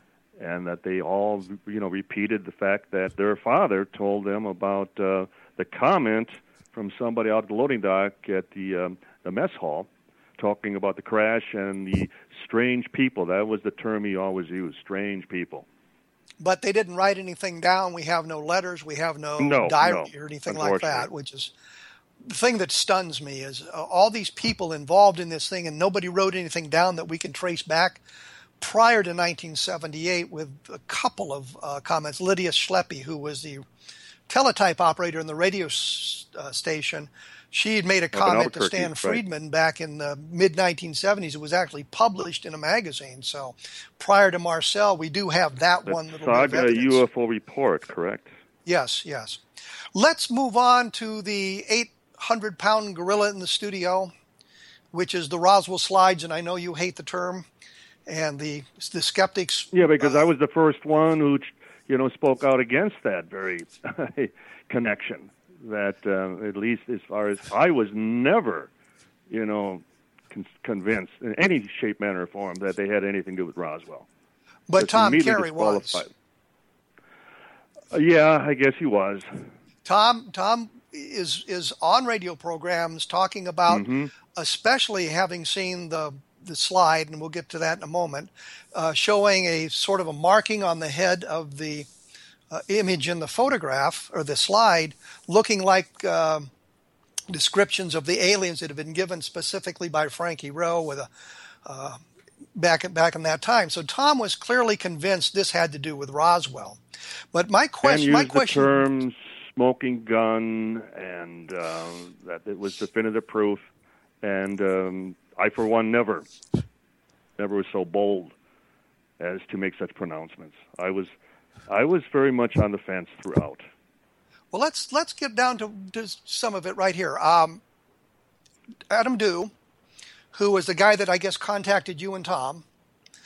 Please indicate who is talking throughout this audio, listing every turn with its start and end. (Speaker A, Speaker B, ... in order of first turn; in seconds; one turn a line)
Speaker A: 0.4-15.7
Speaker B: 16.4-21.5
Speaker A: 19.4-21.1
Speaker B: 22.2-28.0
Speaker B: 28.6-33.6
Speaker B: 34.3-47.0
Speaker A: 38.1-39.2
Speaker A: 45.9-48.3
Speaker B: 48.7-49.4
Speaker B: 50.0-54.1
Speaker B: 54.9-57.5
Speaker B: 58.1-60.2
Speaker A: 59.7-68.7
Speaker A: 69.3-74.1
Speaker B: 74.7-76.0
Speaker A: 74.8-76.1
Speaker A: 77.9-79.5
Speaker B: 79.8-91.9
Speaker A: 83.7-84.1
Speaker B: 92.5-96.5
Speaker B: 97.3-101.1
Speaker B: 101.7-102.0
Speaker B: 102.6-106.8
Speaker B: 107.3-108.8
Speaker A: 107.8-113.7
Speaker A: 114.2-116.3
Speaker A: 117.4-118.3
Speaker A: 119.2-121.1
Speaker A: 121.7-123.6
Speaker B: 124.5-127.6
Speaker B: 128.9-129.5
Speaker B: 130.3-132.7